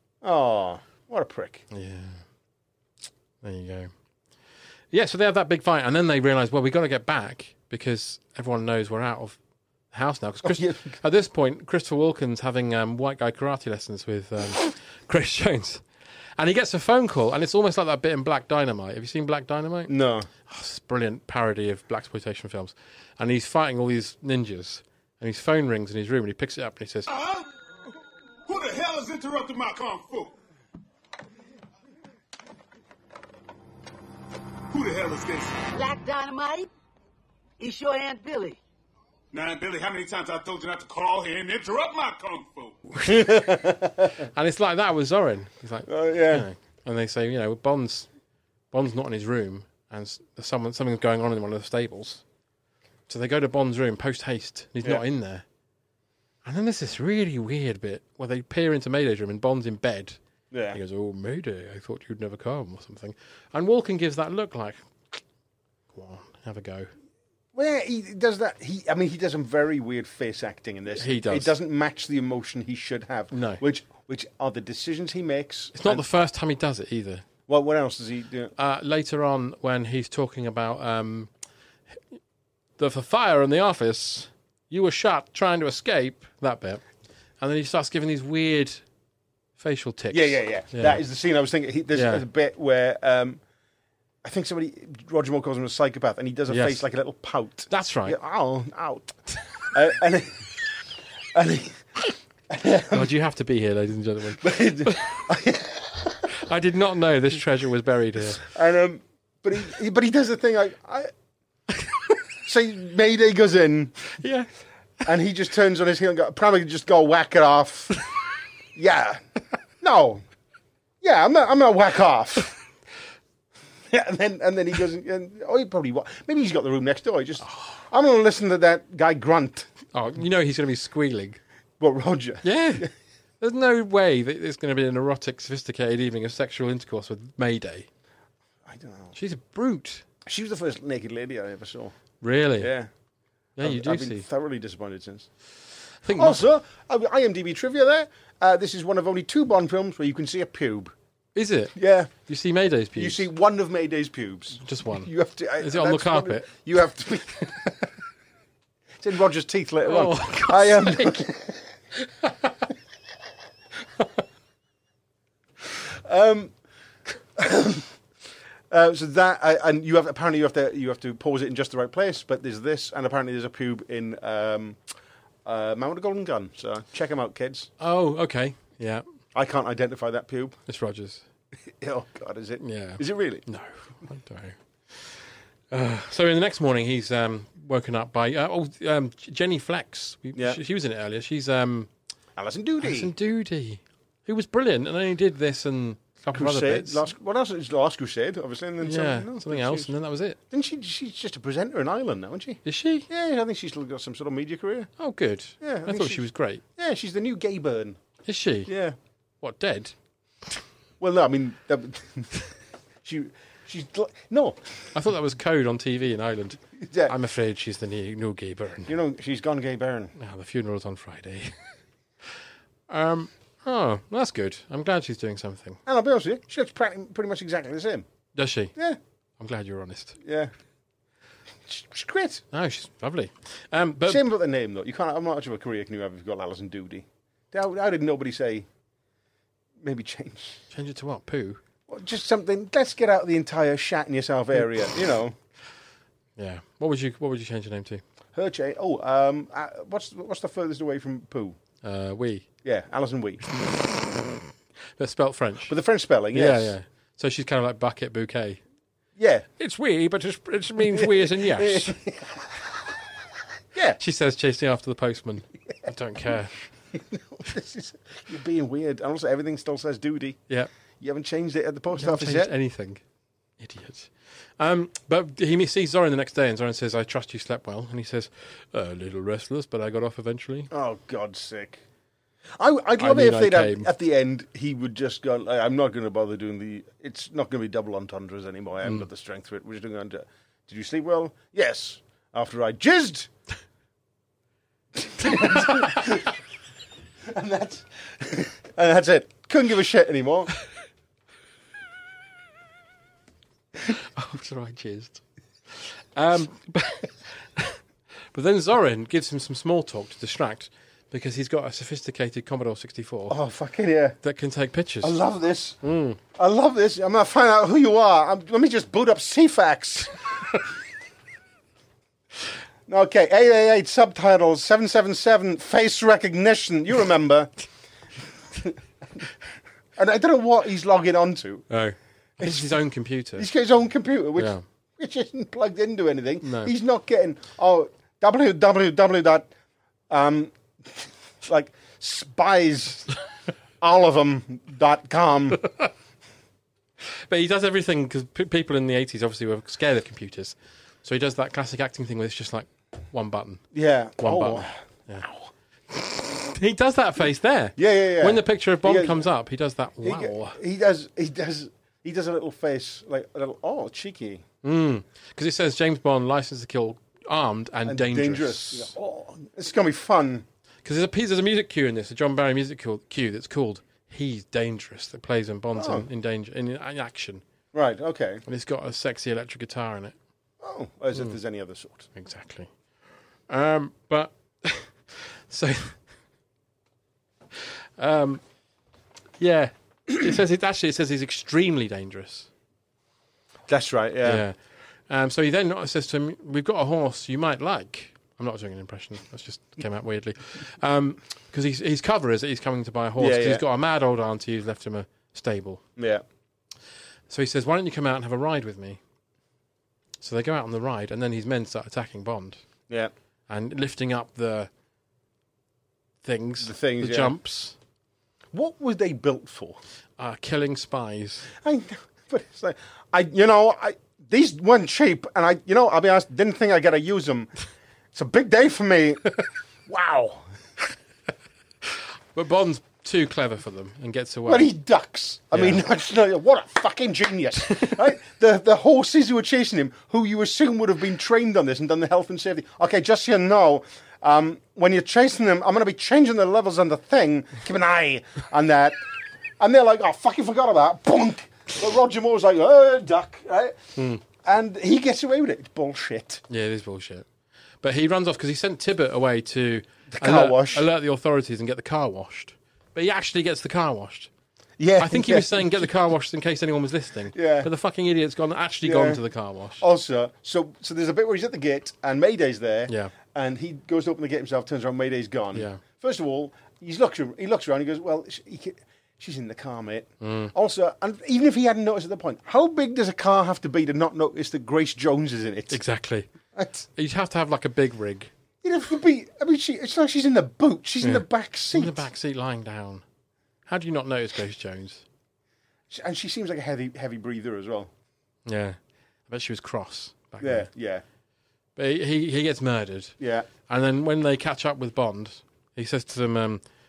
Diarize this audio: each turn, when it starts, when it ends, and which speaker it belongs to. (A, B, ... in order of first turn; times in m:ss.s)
0:00.2-0:01.6 A
0:01.7-0:02.2 B
0:03.4-0:03.9 B
0:04.9-0:09.4 B
0:09.9-0:15.8 B
0:10.4-0:11.0 A
0:16.4-0:19.9 B
0:19.9-0:20.3 A
0:20.4-0:27.1 B
0:27.1-0:27.5 C
0:28.5-0:30.3 C
0:34.7-0:35.6 C
0:35.7-0:36.7 D
0:37.6-0:38.6 D
0:39.3-0:42.8 C
0:43.0-0:44.2 A
0:44.2-0:48.1 B
0:45.9-0:46.5 A
0:48.7-0:52.2 B
0:53.1-0:55.4 B
0:56.4-1:00.2 B
1:00.5-1:00.8 A
1:00.7-1:05.2 B
1:05.9-1:06.9 B
1:07.5-1:16.0 A
1:11.0-1:11.5 B
1:13.3-1:13.6 B
1:15.7-1:17.2 B
1:17.5-1:18.5 A
1:18.6-1:21.3 B
1:22.8-1:26.8 B
1:27.4-1:28.8 B
1:29.6-1:31.0 B
1:30.1-1:33.4 A
1:31.9-1:32.2 B
1:34.2-1:40.5 A
1:36.5-1:36.8 B
1:37.7-1:38.2 B
1:41.3-1:42.0 A
1:42.5-1:43.1 A
1:42.9-1:45.3 B
1:44.4-1:46.3 A
1:46.3-1:48.4 B
1:48.4-1:51.1 A
1:52.4-1:54.1 A
1:54.2-1:54.5 B
1:55.0-1:58.0 A
1:58.7-1:59.2 A
1:59.8-2:00.2 A
2:01.0-2:02.5 A
2:03.9-2:09.7 A
2:09.9-2:11.4 B
2:11.8-2:12.9 A
2:12.4-2:17.9 B
2:18.6-2:19.2 A
2:19.1-2:20.0 B
2:20.2-2:22.0 A
2:22.2-2:22.7 B
2:22.6-2:22.9 A
2:23.6-2:24.3 B
2:23.6-2:25.3 A
2:26.0-2:26.4 B
2:26.1-2:30.9 A
2:31.3-2:33.3 B
2:31.7-2:32.1 A
2:32.9-2:37.6 A
2:34.6-2:36.5 B
2:39.0-2:41.6 A
2:39.8-2:41.3 B
2:42.0-2:42.5 B
2:45.6-2:46.5 A
2:47.4-2:48.0 A
2:48.7-2:54.8 A
2:55.4-2:57.7 A
2:57.8-2:59.0 B
2:59.3-3:00.6 A
3:00.7-3:01.2 B
3:01.6-3:03.4 A
3:02.6-3:11.9 B
3:10.3-3:10.6 A
3:12.4-3:13.1 A
3:12.8-3:17.0 B
3:16.3-3:19.9 A
3:18.8-3:20.4 B
3:20.5-3:24.9 A
3:22.6-3:23.1 B
3:25.0-3:26.6 B
3:25.6-3:28.0 A
3:28.2-3:28.7 B
3:28.6-3:29.0 A
3:29.4-3:29.9 B
3:31.0-3:32.5 A
3:33.0-3:34.9 A
3:34.9-3:38.9 B
3:36.8-3:37.1 A
3:38.9-3:40.1 A
3:40.2-3:41.6 B
3:42.9-3:45.8 B
3:45.8-3:48.0 A
3:48.3-3:48.8 B
3:49.4-3:50.2 B
3:50.2-3:50.5 A
3:51.6-3:52.4 A
3:52.5-3:54.2 B
3:54.0-3:58.7 A
3:59.8-4:00.6 A
4:00.7-4:01.6 B
4:01.9-4:05.3 A
4:06.4-4:08.0 B
4:08.3-4:11.6 A
4:11.8-4:12.5 B
4:12.6-4:13.4 A
4:15.0-4:15.7 B
4:15.7-4:16.8 A
4:16.3-4:18.6 B
4:19.2-4:19.5 A
4:19.6-4:22.0 B
4:20.8-4:22.7 A
4:23.7-4:24.0 A
4:24.0-4:26.6 B
4:26.9-4:30.4 A
4:31.0-4:32.5 A
4:31.9-4:33.0 B
4:33.6-4:40.7 B
4:40.7-4:41.8 A
4:42.6-4:53.3 A
4:43.0-4:43.9 B
4:55.0-4:56.4 A
4:57.2-5:00.5 A
5:03.9-5:07.8 B
5:08.3-5:13.4 B
5:13.3-5:14.2 A
5:14.2-5:15.2 B
5:15.0-5:15.8 A
5:15.8-5:16.2 B
5:16.3-5:20.4 A
5:22.9-5:27.5 A
5:28.6-5:29.2 A
5:30.0-5:31.7 A
5:31.7-5:33.5 B
5:32.4-5:32.8 A
5:33.4-5:39.5 A
5:34.4-5:34.6 B
5:36.4-5:36.7 B
5:40.1-5:43.2 A
5:43.8-5:45.6 A
5:47.3-5:53.6 B
5:53.7-5:55.5 A
5:54.2-5:55.2 B
5:55.9-6:00.6 B
5:57.8-5:59.3 A
6:00.0-6:04.4 A
6:04.6-6:08.9 B
6:07.8-6:10.4 A
6:10.8-6:17.4 B
6:15.8-6:16.1 A
6:17.7-6:18.4 A
6:18.4-6:20.1 B
6:20.6-6:22.1 A
6:22.1-6:22.7 B
6:23.5-6:26.0 B
6:28.0-6:28.4 B
6:29.4-6:32.5 B
6:33.7-6:34.4 A
6:34.2-6:34.6 B
6:35.1-6:45.8 B
6:43.2-6:43.6 A
6:46.0-6:46.2 A
6:47.3-6:49.0 B
6:50.2-6:52.6 B
6:53.5-6:54.7 B
6:56.2-6:57.7 B
6:56.6-6:57.4 A
6:58.5-6:59.8 A
7:00.2-7:01.5 B
7:01.5-7:07.5 A
7:08.1-7:10.4 A
7:11.9-7:14.7 B
7:14.4-7:29.0 A
7:15.5-7:15.8 B
7:29.6-7:36.4 A
7:34.0-7:34.2 B
7:36.5-7:37.3 B
7:37.8-7:44.3 B
7:40.1-7:40.9 A
7:44.8-7:45.9 A
7:45.0-7:49.8 B
7:47.3-7:47.7 A
7:48.8-7:49.2 A
7:49.8-8:05.8 A
7:52.9-7:53.1 B
7:55.5-7:55.8 B
8:00.2-8:00.5 B
8:05.7-8:06.3 B
8:06.5-8:06.9 A
8:07.0-8:08.3 B
8:08.6-8:12.1 A
8:11.0-8:13.0 B
8:13.6-8:15.0 B
8:15.9-8:17.9 A
8:18.4-8:18.8 B
8:19.3-8:20.7 B
8:20.4-8:21.0 A
8:21.8-8:23.2 B
8:23.2-8:23.5 A
8:23.7-8:26.6 B